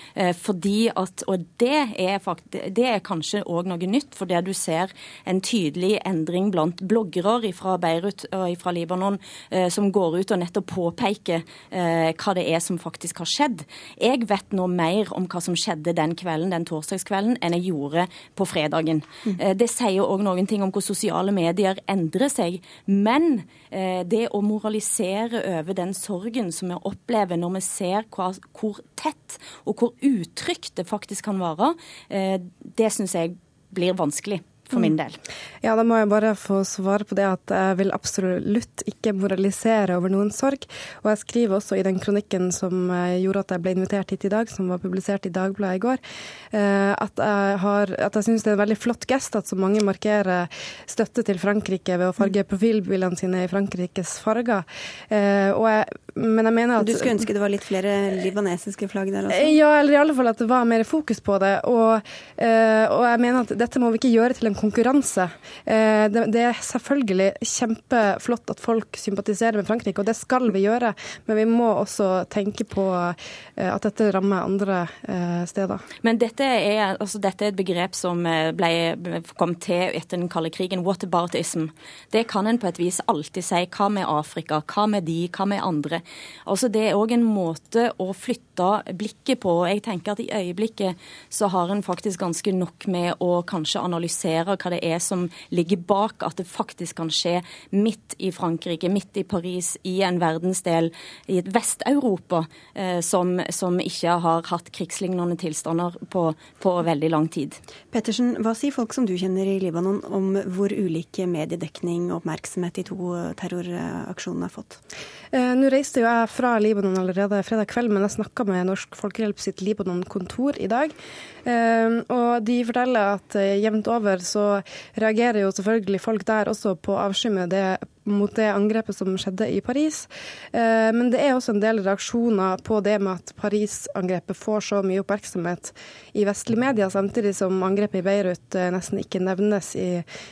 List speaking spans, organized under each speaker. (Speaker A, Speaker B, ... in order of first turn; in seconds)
Speaker A: 0.1-35.2, 76.0-107.6
Speaker B: 35.6-46.0, 46.5-57.3, 59.3-75.8, 115.3-140.0
Speaker C: 56.8-59.6, 107.9-114.8